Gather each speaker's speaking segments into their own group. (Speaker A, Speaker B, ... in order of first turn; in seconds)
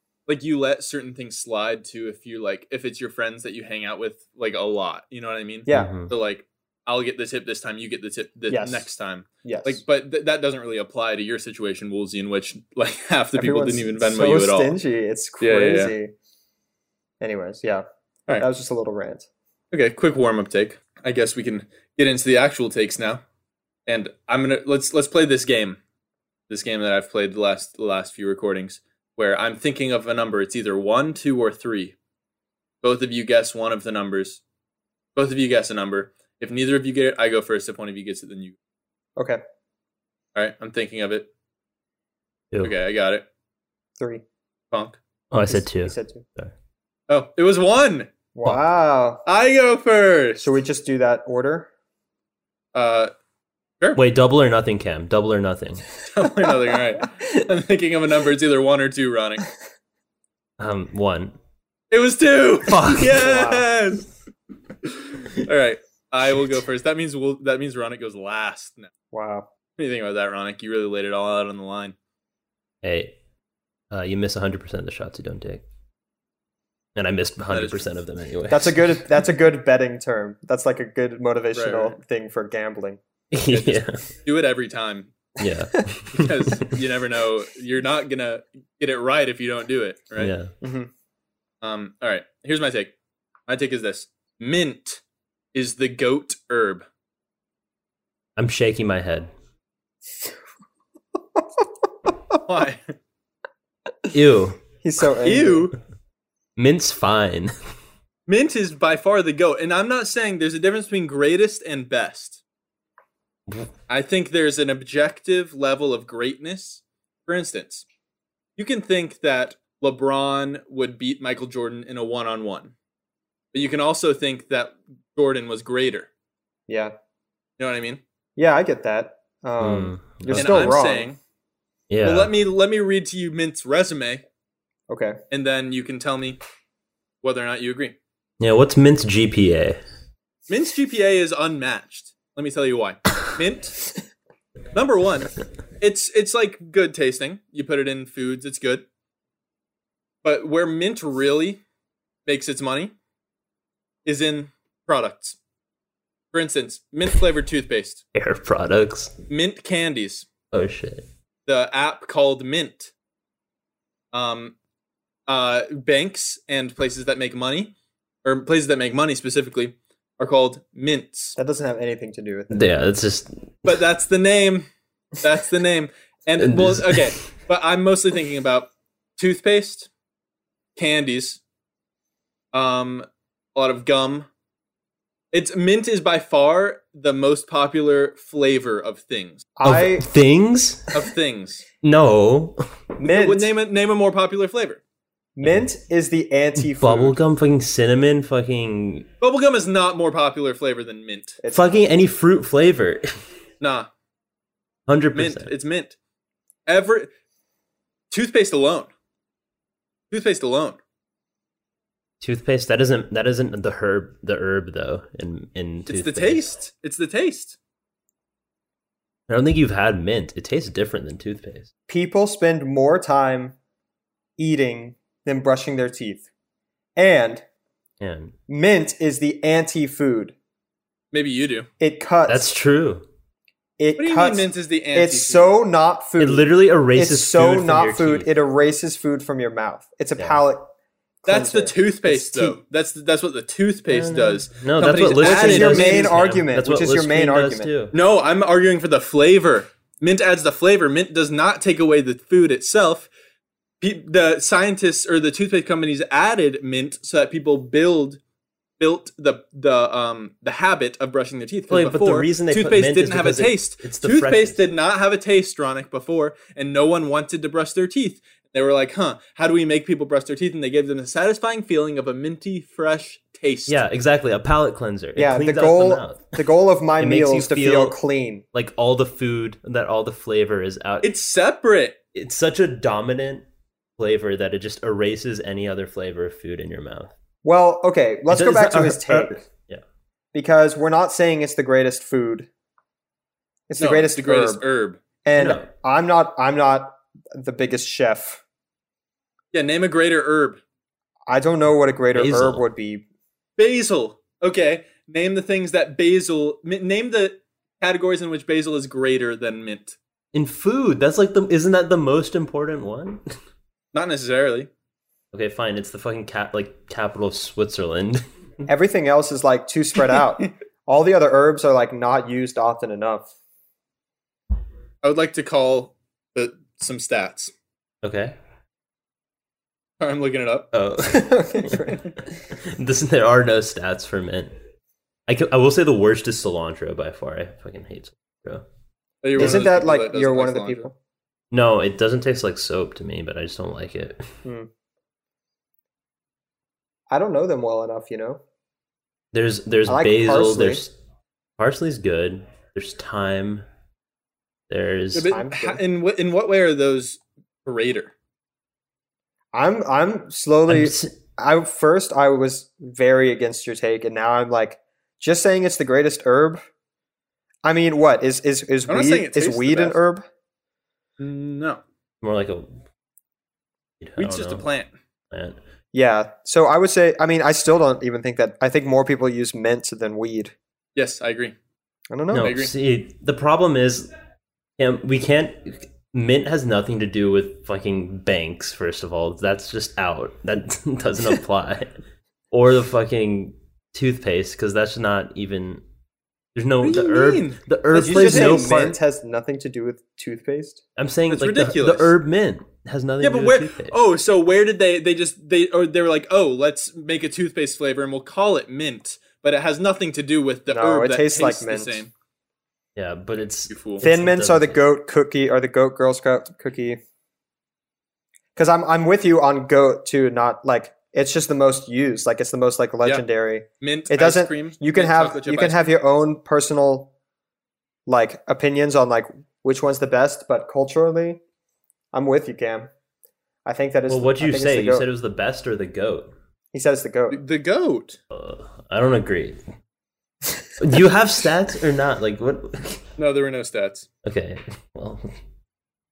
Speaker A: 0.3-14.8, 15.4-15.9, 19.7-23.2, 23.9-25.8, 26.5-31.9, 32.8-34.4, 35.1-38.5, 40.3-41.3, 42.6-43.2, 44.7-45.0, 47.1-48.1, 49.2-50.4, 52.7-53.1, 56.1-59.4, 61.9-64.1, 64.8-68.9, 69.8-71.9, 77.5-78.0, 81.5-82.0, 83.5-85.1, 86.1-90.3, 91.6-92.9, 93.5-95.0, 95.5-96.8, 102.5-102.9, 105.2-105.7, 108.3-112.4, 113.9-117.8, 118.6-122.7, 123.5-126.1, 127.6-128.0, 130.3-131.2, 132.0-134.2, 135.3-136.4, 137.2-137.9, 140.5-143.8, 144.7-148.8, 150.2-151.6, 152.2-152.9, 154.0-155.4, 156.3-158.0, 159.3-160.3, 161.4-162.9, 164.1-164.5, 165.3-171.3, 173.6-174.7, 175.2-179.9, 180.8-181.4, 182.5-184.3, 185.3-189.4, 190.9-191.6, 193.0-194.8, 199.2-201.4, 203.6-203.9, 205.1-205.9, 206.7-207.1, 208.1-208.9, 210.1-210.8, 215.9-217.6, 231.1-231.7, 234.0-235.5, 241.2-246.1, 247.9-253.1, 253.8-258.2, 258.8-273.8, 281.0-282.0, 293.8-295.0, 299.5-300.6, 303.6-310.0, 313.9-314.7, 325.0-327.5, 330.0-330.7, 339.2-340.9, 355.1-358.1, 368.9-370.0, 371.2-371.8, 374.2-374.9, 380.9-381.5, 382.4-382.7, 396.8-398.7, 401.3-402.1, 403.2-412.1, 413.7-414.0, 423.8-425.9, 437.3-438.2, 443.2-444.1
Speaker B: 5.7-5.9, 8.5-8.9, 9.4-9.8, 13.3-16.1, 17.2-17.8, 18.4-19.3, 45.5-46.2, 48.3-49.2, 50.4-51.7, 63.1-63.6, 69.1-69.5, 78.5-83.0, 90.6-90.9, 104.8-105.7, 126.7-126.9, 128.4-131.1, 134.9-135.2, 171.4-172.6, 189.6-190.1, 193.0-193.5, 195.3-197.1, 201.4-201.8, 221.9-223.5, 224.4-226.2, 226.9-227.4, 228.5-230.3, 231.8-232.5, 233.8-240.7, 241.2-242.6, 245.2-247.7, 275.1-278.4, 287.4-289.4, 290.3-292.5, 293.7-294.6, 295.2-298.4, 301.3-303.0, 318.7-323.3, 331.0-332.2, 339.4-340.9, 347.1-348.4, 349.9-350.8, 355.2-355.8, 359.5-366.6, 367.6-370.2, 375.9-380.5, 382.1-382.5, 397.9-400.8, 410.7-412.0, 414.0-417.0, 418.6-427.1, 428.1-431.4, 432.1-432.9, 433.6-435.1, 436.7-437.4
Speaker C: 5.7-6.1, 45.3-46.5, 54.0-55.9, 60.6-61.4, 62.7-63.2, 72.8-73.2, 73.9-75.6, 76.9-79.0, 83.3-84.0, 85.4-86.7, 90.2-90.5, 98.4-99.3, 104.1-104.6, 106.6-107.5, 129.6-130.7, 131.9-132.3, 138.4-139.8, 158.1-159.2, 160.5-161.1, 172.5-173.4, 176.4-177.1, 189.6-191.0, 191.8-192.6, 196.6-199.1, 201.5-203.1, 204.9-205.5, 212.2-216.4, 219.3-221.7, 228.0-228.3, 232.3-233.1, 236.2-238.3, 243.9-247.9, 261.7-264.6, 273.7-276.4, 277.0-277.9, 278.5-281.1, 282.1-283.4, 284.0-287.1, 288.3-289.8, 295.4-295.6, 302.1-302.6, 310.3-313.2, 315.3-318.2, 328.0-328.4, 330.7-331.9, 332.5-334.5, 335.3-338.6, 341.5-344.3, 349.3-350.9, 351.6-353.6, 354.7-355.3, 360.7-361.1, 372.2-372.7, 374.0-374.6, 375.3-375.6, 382.3-384.1, 384.8-391.9, 392.5-395.8, 396.5-399.0, 401.0-403.9, 412.9-414.8, 434.1-436.3, 438.3-439.6, 440.8-443.0, 444.2-445.3